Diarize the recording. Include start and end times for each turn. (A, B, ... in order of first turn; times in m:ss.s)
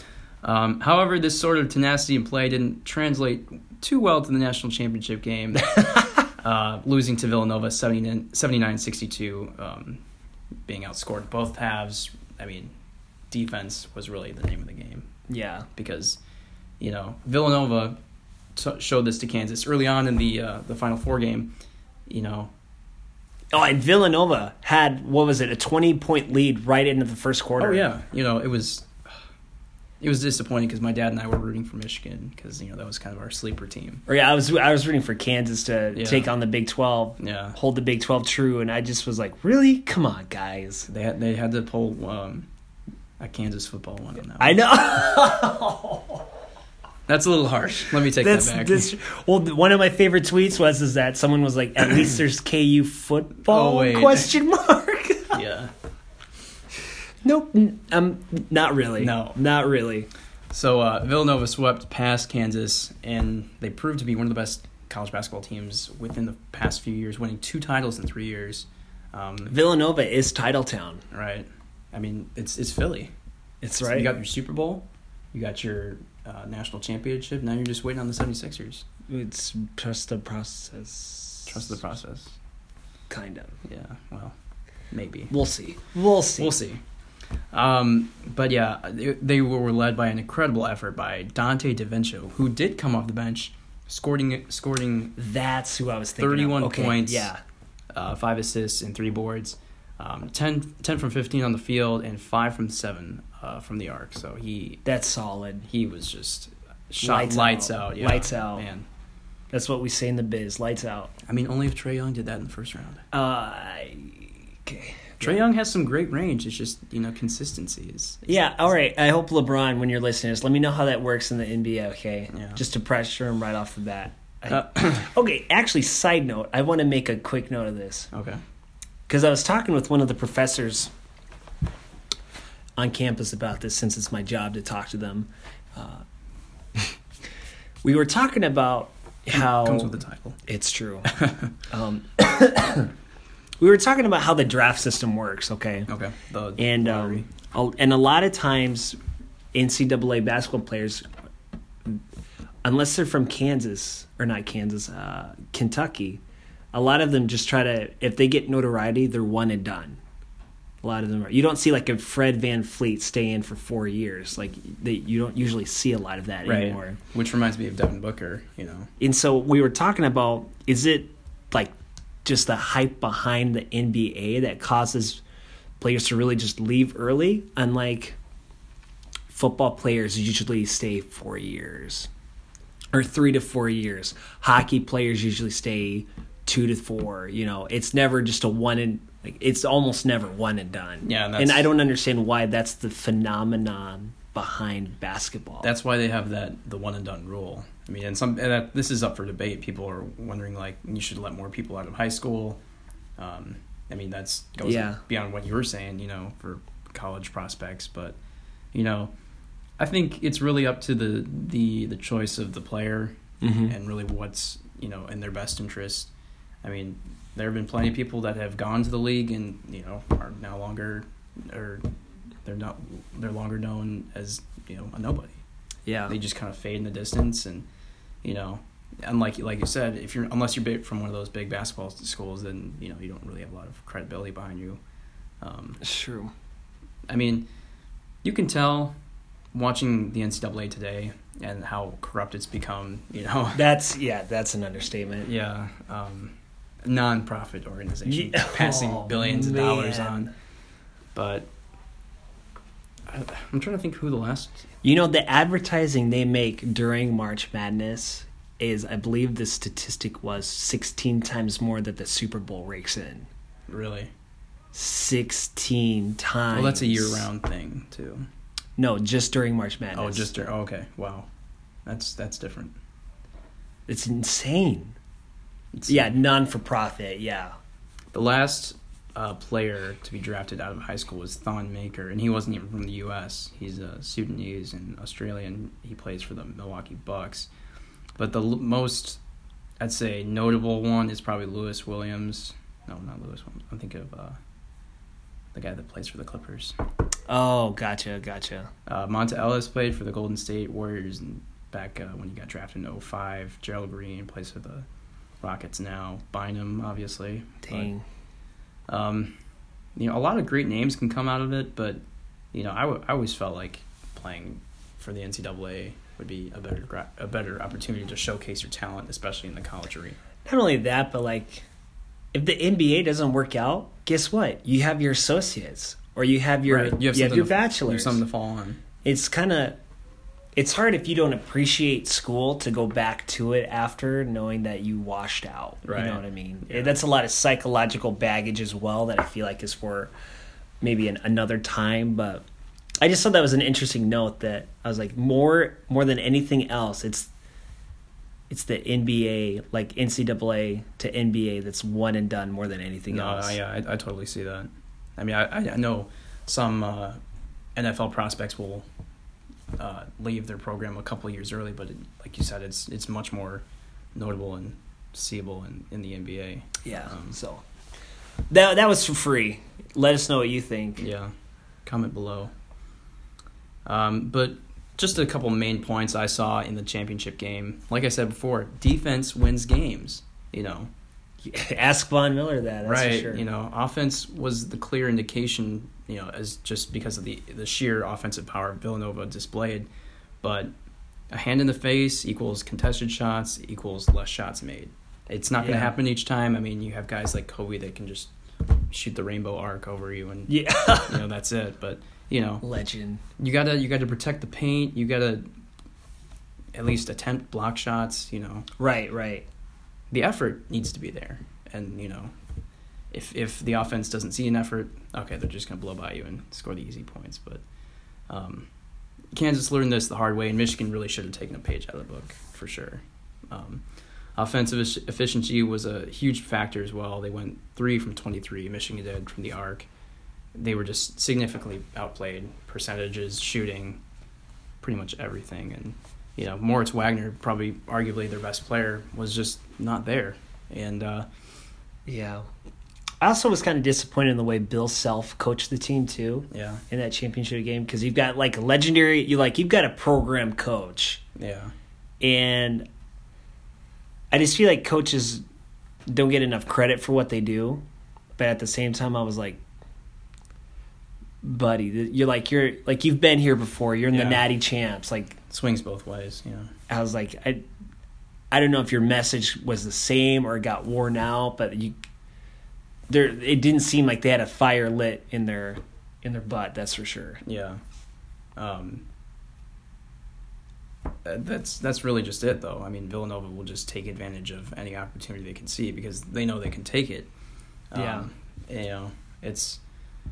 0:00.4-0:10.0 A
0:05.8-0:06.2 B
0:10.6-0:12.7 A
0:13.3-0:15.1 A
0:15.3-0:15.7 B
0:15.8-0:16.2 A
0:16.8-0:18.0 A
0:18.5-0:21.6 A
0:22.1-0:22.5 A
0:23.5-0:27.8 B
0:27.6-0:29.0 A
0:30.0-0:34.0 A
0:34.1-0:40.9 B
0:35.9-0:36.3 A
0:37.2-0:37.6 A
0:40.9-0:42.5 A
0:43.2-0:44.6 A
0:44.4-0:46.2 B
0:47.1-0:48.9 A
0:48.1-0:55.4 B
0:53.4-0:54.4 A
0:55.3-0:55.7 A
0:57.2-1:00.1 B
0:59.0-0:59.4 A
1:00.5-1:09.5 A
1:09.5-1:11.0 B
1:11.1-1:13.1 A
1:13.6-1:14.1 B
1:13.8-1:18.8 A
1:19.1-1:21.8 B
1:21.4-1:22.3 A
1:23.1-1:23.6 B
1:23.6-1:24.4 A
1:24.9-1:25.3 A
1:25.3-1:26.5 B
1:26.4-1:26.8 A
1:27.5-1:35.1 A
1:35.2-1:37.4 B
1:36.2-1:37.3 A
1:37.9-1:44.8 A
1:44.8-1:45.7 B
1:45.7-1:48.9 A
1:47.0-1:48.6 B
1:49.5-1:51.1 B
1:51.2-1:53.0 A
1:53.1-1:55.4 B
1:55.2-1:58.4 A
1:58.3-2:08.1 B
2:02.3-2:02.6 A
2:04.5-2:05.1 A
2:08.1-2:08.4 A
2:09.1-2:10.9 B
2:12.8-2:16.0 B
2:17.8-2:19.9 B
2:19.3-2:20.4 A
2:20.4-2:21.1 B
2:21.1-2:21.5 A
2:21.7-2:22.9 B
2:23.6-2:25.9 B
2:25.9-2:27.3 A
2:26.6-2:29.0 B
2:29.5-2:31.0 B
2:32.6-2:36.2 B
2:36.7-2:40.0 B
2:40.8-2:47.0 B
2:46.4-2:48.9 A
2:49.0-2:51.7 B
2:52.2-2:55.2 B
2:55.8-2:58.2 B
2:59.3-3:02.1 B
3:02.9-3:15.7 B
3:11.0-3:11.7 A
3:15.6-3:22.6 A
3:23.2-3:28.2 A
3:24.6-3:25.0 B
3:28.7-3:29.1 A
3:29.8-3:36.1 A
3:33.4-3:33.7 B
3:36.6-3:41.8 A
3:42.4-3:45.4 A
3:45.8-3:46.1 B
3:46.1-3:47.6 A
3:48.2-3:54.8 A
3:55.4-3:55.8 A
3:55.8-3:56.3 B
3:57.1-3:57.5 A
3:58.2-3:59.0 A
3:59.5-4:03.6 A
4:03.5-4:05.3 B
4:05.2-4:10.3 A
4:08.1-4:10.3 B
4:11.1-4:11.5 A
4:13.1-4:14.6 A
4:14.8-4:23.3 B
4:23.7-4:24.1 A
4:24.7-4:27.3 B
4:26.5-4:28.3 A
4:28.8-4:30.3 B
4:29.9-4:31.3 A
4:31.8-4:32.8 A
4:33.9-4:34.9 B
4:35.7-4:36.1 A
4:35.9-4:37.5 B
4:38.1-4:47.5 A
4:48.2-4:49.2 A
4:49.8-4:54.4 A
4:55.5-4:56.8 A
4:57.3-4:58.7 B
4:58.8-5:04.8 A
5:05.4-5:07.9 A
5:07.6-5:08.0 B
5:08.9-5:09.4 A
5:09.9-5:12.0 A
5:12.5-5:20.2 A
5:20.4-5:21.6 B
5:22.3-5:28.2 B
5:26.6-5:28.8 A
5:29.0-5:29.8 B
5:30.6-5:40.1 B
5:35.8-5:37.0 A
5:40.8-5:42.4 B
5:43.0-5:47.3 B
5:48.5-5:53.6 B
5:53.1-5:57.2 A
5:57.7-5:58.8 A
5:59.7-6:03.6 A
6:04.1-6:07.3 A
6:06.8-6:07.6 B
6:08.5-6:11.0 B
6:11.0-6:11.3 A
6:11.8-6:12.5 A
6:13.8-6:20.9 A
6:21.4-6:23.4 B
6:22.8-6:29.9 A
6:30.4-6:30.7 A
6:31.3-6:42.6 A
6:35.6-6:35.9 B
6:40.5-6:41.2 B
6:42.6-6:43.2 B
6:43.4-6:45.5 A
6:46.7-6:48.7 A
6:48.8-6:49.4 B
6:50.1-6:52.3 A
6:53.1-6:57.6 A
6:58.3-6:58.7 A
6:59.3-7:09.9 A
7:10.5-7:14.0 A
7:14.8-7:21.3 A
7:22.1-7:22.4 B
7:23.2-7:31.2 B
7:26.5-7:26.8 A
7:31.4-7:31.7 A
7:32.2-7:32.8 B
7:34.3-7:35.4 B
7:36.1-7:37.8 B
7:38.4-7:39.6 B
7:41.4-7:45.4 B
7:44.1-7:44.4 A
7:45.5-7:46.7 A
7:46.9-7:47.6 B
7:48.5-7:51.9 B
7:53.1-7:57.4 B
7:57.4-7:57.8 A
7:58.6-7:59.0 A
8:01.2-8:07.3 A
8:07.9-8:09.8 A
8:07.9-8:08.3 B